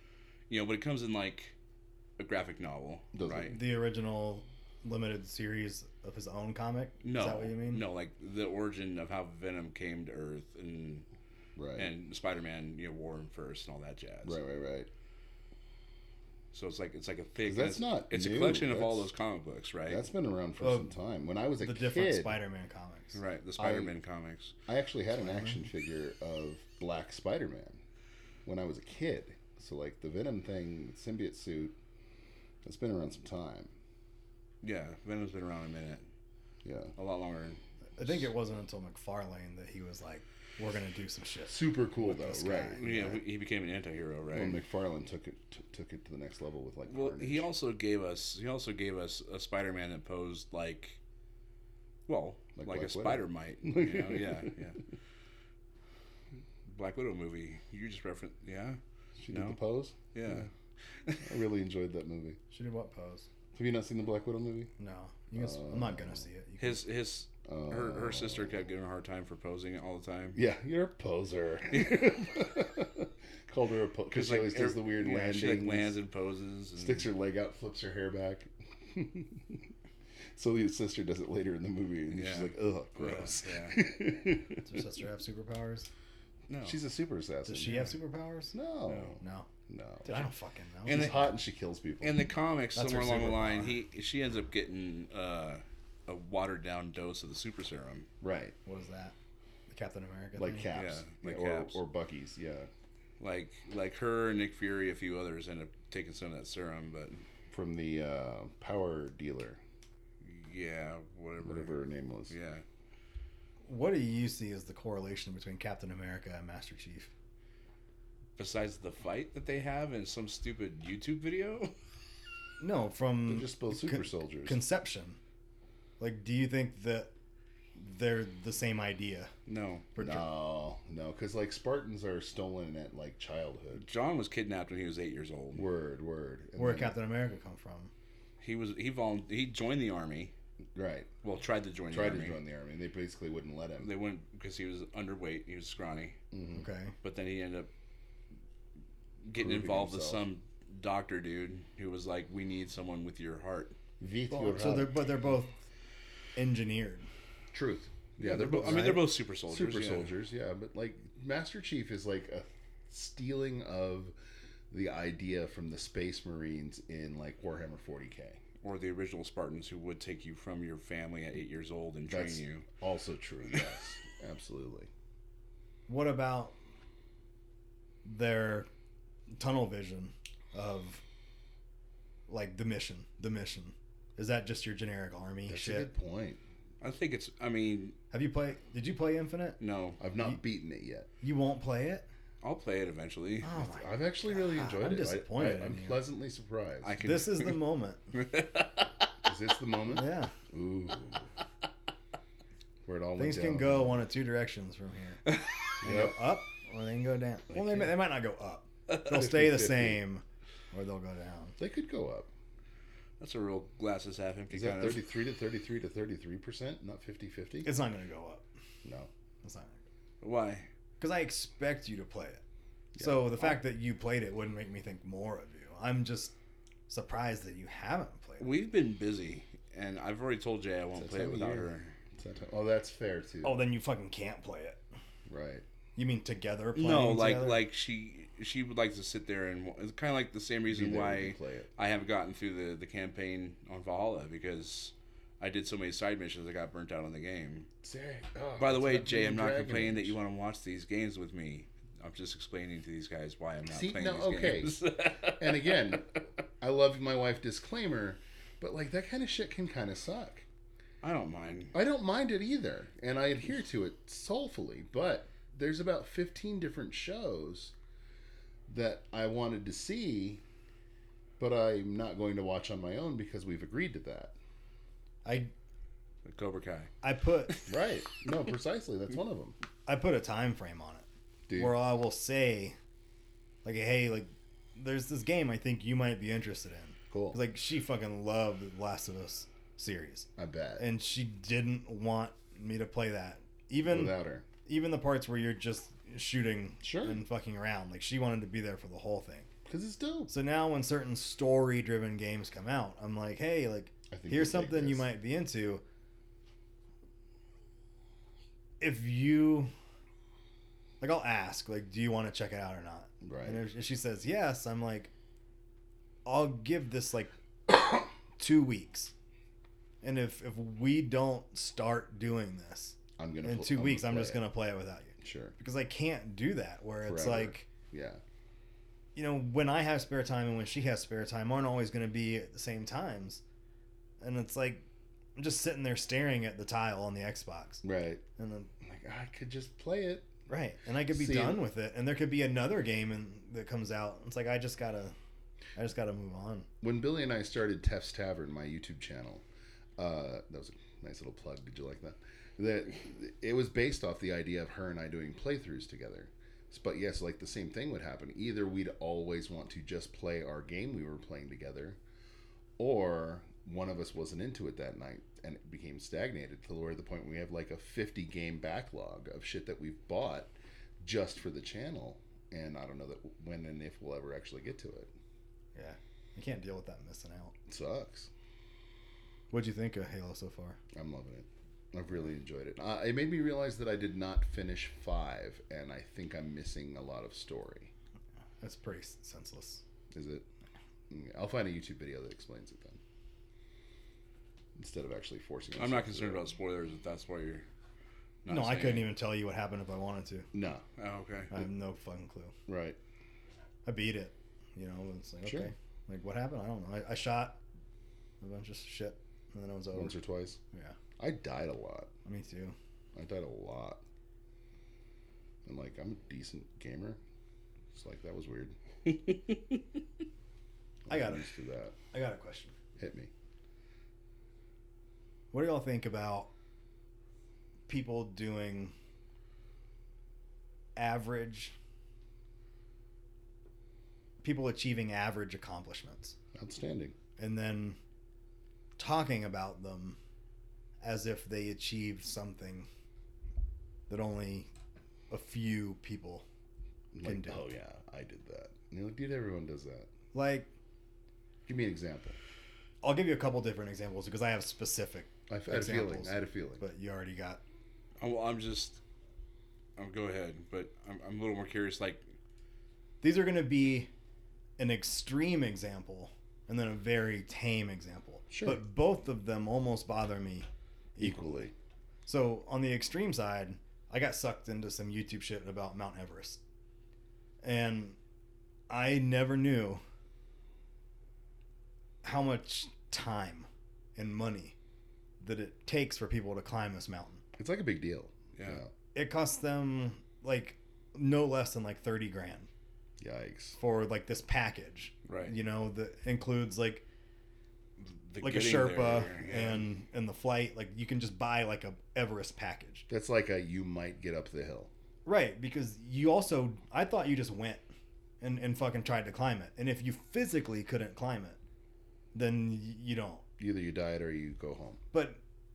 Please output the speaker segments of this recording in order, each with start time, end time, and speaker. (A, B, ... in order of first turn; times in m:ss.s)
0:00.5-0:01.5 A
0:02.2-0:03.6 A
0:03.1-0:03.6 B
0:03.5-0:07.8 C
0:07.0-0:11.0 A
0:11.6-0:11.9 B
0:11.7-0:14.4 A
0:14.2-0:14.9 B
0:16.5-0:20.0 A
0:17.4-0:19.1 B
0:19.9-0:22.4 B
0:20.6-0:20.9 C
0:21.6-0:23.2 C
0:23.1-0:24.5 A
0:23.6-0:23.9 B
0:24.7-0:27.8 B
0:25.2-0:25.6 C
0:28.4-0:31.8 B
0:32.6-0:33.7 B
0:34.6-0:36.1 A
0:36.6-0:36.9 B
0:37.0-0:38.1 A
0:38.0-0:42.8 C
0:41.5-0:43.2 B
0:42.7-0:44.6 A
0:44.3-0:47.5 B
0:46.9-0:51.0 A
0:52.1-0:54.8 A
0:52.6-0:54.5 B
0:56.6-0:58.8 A
0:59.2-1:00.0 B
0:59.3-0:59.6 A
1:00.1-1:01.4 A
1:01.2-1:02.4 B
1:02.5-1:03.3 C
1:03.5-1:04.7 B
1:04.8-1:06.8 C
1:05.3-1:06.2 B
1:06.6-1:10.4 A
1:07.4-1:08.6 B
1:10.3-1:16.0 B
1:11.7-1:12.0 A
1:14.1-1:17.1 A
1:16.8-1:19.7 B
1:20.3-1:24.6 B
1:22.1-1:23.8 A
1:24.6-1:25.9 C
1:26.5-1:26.8 A
1:26.6-1:27.9 B
1:27.4-1:28.5 C
1:28.5-1:30.2 B
1:29.2-1:29.5 C
1:30.0-1:31.3 C
1:30.8-1:32.2 B
1:30.9-1:31.3 A
1:32.0-1:38.1 A
1:32.8-1:33.8 C
1:38.2-1:38.6 B
1:38.6-1:39.1 C
1:39.7-1:40.7 C
1:40.4-1:42.7 B
1:40.7-1:41.8 A
1:43.2-1:47.2 A
1:47.5-1:49.6 B
1:50.2-1:51.8 A
1:51.4-1:52.3 B
1:52.3-1:52.6 A
1:53.6-1:57.1 C
1:58.4-2:01.7 A
2:02.6-2:05.2 C
2:03.2-2:04.6 B
2:06.0-2:07.1 C
2:07.8-2:09.3 C
2:09.5-2:09.9 A
2:10.0-2:10.2 C
2:10.0-2:13.8 B
2:13.7-2:15.6 A
2:15.5-2:17.0 B
2:16.6-2:17.9 C
2:18.4-2:20.3 A
2:20.7-2:21.1 B
2:21.2-2:22.4 A
2:21.9-2:23.9 B
2:23.8-2:26.2 A
2:26.3-2:26.6 B
2:26.5-2:27.0 C
2:27.0-2:27.7 A
2:29.2-2:33.8 A
2:29.4-2:30.2 B
2:34.0-2:35.1 B
2:34.3-2:35.6 C
2:36.4-2:37.1 C
2:37.5-2:44.1 B
2:38.2-2:40.1 A
2:38.2-2:39.0 C
2:44.7-2:48.4 B
2:48.6-2:52.6 A
2:52.1-2:54.9 B
2:55.9-2:56.5 C
2:58.0-2:58.7 C
2:59.3-3:01.0 C
3:02.3-3:05.9 C
3:05.5-3:06.4 B
3:06.8-3:08.0 A
3:08.1-3:09.6 C
3:09.6-3:10.0 A
3:10.0-3:11.1 B
3:11.2-3:12.1 C
3:12.4-3:13.5 A
3:13.4-3:16.0 C
3:13.6-3:17.0 B
3:16.8-3:17.6 A
3:17.0-3:18.0 C
3:18.1-3:19.0 A
3:19.2-3:21.2 B
3:19.9-3:20.3 C
3:22.8-3:24.0 B
3:23.2-3:25.2 C
3:25.3-3:25.6 A
3:25.8-3:26.2 B
3:25.8-3:31.6 C
3:27.5-3:27.9 B
3:29.0-3:30.0 B
3:31.6-3:32.3 B
3:33.2-3:35.0 A
3:34.5-3:37.7 B
3:37.6-3:38.5 C
3:38.8-3:39.1 B
3:39.4-3:39.8 C
3:40.2-3:40.7 A
3:41.0-3:42.4 C
3:42.9-3:43.6 B
3:43.0-3:46.4 C
3:46.9-3:48.5 C
3:48.4-3:52.0 A
3:51.0-3:53.6 B
3:53.4-3:54.8 C
3:55.3-3:55.6 B
3:56.0-3:57.6 C
3:56.8-4:07.7 A
4:00.7-4:01.7 B
4:07.8-4:10.2 B
4:08.6-4:16.0 A
4:13.7-4:20.4 B
4:21.0-4:21.7 A
4:21.7-4:27.7 B
4:28.7-4:30.4 B
4:31.4-4:34.3 B
4:35.2-4:35.5 C
4:36.2-4:36.9 A
4:37.0-4:37.6 C
4:37.7-4:39.6 B
4:39.8-4:42.8 C
4:41.5-4:41.8 B
4:43.6-4:59.5 C
4:47.1-4:47.4 B
4:50.4-4:50.9 B
4:53.9-4:54.4 B
4:56.8-4:57.2 B
4:59.6-5:00.3 B
5:00.3-5:05.8 C
5:04.1-5:05.1 B
5:08.8-5:09.7 C
5:11.0-5:15.1 C
5:13.2-5:13.6 B
5:16.2-5:17.8 C
5:18.4-5:19.1 C
5:20.0-5:27.7 C
5:23.2-5:24.4 B
5:25.2-5:25.6 B
5:27.0-5:28.2 B
5:29.1-5:33.4 C
5:34.2-5:34.8 C
5:35.4-5:37.8 C
5:37.8-5:38.2 B
5:38.4-5:38.7 C
5:38.8-5:40.3 B
5:40.5-5:45.2 C
5:41.1-5:41.6 B
5:45.8-5:46.7 C
5:46.8-5:49.4 B
5:50.0-6:02.0 B
6:02.8-6:15.1 B
6:15.7-6:17.5 C
6:17.7-6:18.3 B
6:19.5-6:20.8 C
6:20.9-6:27.9 B
6:28.6-6:29.8 C
6:30.1-6:30.4 B
6:31.1-6:33.0 B
6:34.8-6:36.5 B
6:35.8-6:37.7 A
6:38.4-6:39.1 A
6:38.5-6:40.5 C
6:40.5-6:40.8 B
6:41.0-6:41.5 A
6:41.5-6:42.5 C
6:42.7-6:43.0 B
6:43.8-6:47.6 C
6:45.4-6:45.7 B
6:48.4-6:50.2 C
6:49.9-6:50.6 B
6:51.2-6:52.1 B
6:52.2-6:52.8 C
6:53.1-6:54.0 B
6:55.6-6:57.2 B
6:57.9-6:58.7 B
6:59.3-6:59.5 A
7:01.0-7:02.0 B
7:01.1-7:01.4 C
7:02.1-7:02.7 C
7:03.0-7:03.3 B
7:05.5-7:06.5 C
7:07.9-7:08.9 C
7:11.0-7:11.7 C
7:14.4-7:16.4 C
7:16.5-7:17.2 B
7:17.4-7:18.0 C
7:19.0-7:20.2 C
7:21.0-7:22.9 C
7:24.1-7:24.7 C
7:25.3-7:26.4 C
7:27.1-7:30.1 B
7:27.2-7:27.7 C
7:30.3-7:30.7 C
7:31.6-7:32.4 B
7:33.0-7:37.6 C
7:35.5-7:36.8 B
7:38.2-7:39.0 A
7:40.0-7:42.3 A
7:43.2-7:44.1 C
7:44.8-7:51.6 C
7:48.5-7:48.8 B
7:51.2-7:51.7 B
7:52.2-7:56.6 C
7:57.6-7:58.2 C
7:58.9-8:00.0 C
8:02.2-8:04.8 C
8:05.4-8:07.4 C
8:07.6-8:08.9 B
8:08.6-8:08.8 A
8:09.1-8:12.7 C
8:13.2-8:13.8 B
8:13.8-8:17.0 C
8:15.2-8:15.5 A
8:18.0-8:19.8 A
8:18.4-8:23.1 C
8:23.1-8:24.9 B
8:25.2-8:27.8 C
8:28.4-8:31.6 C
8:32.3-8:33.4 C
8:33.6-8:35.0 B
8:35.1-8:35.4 C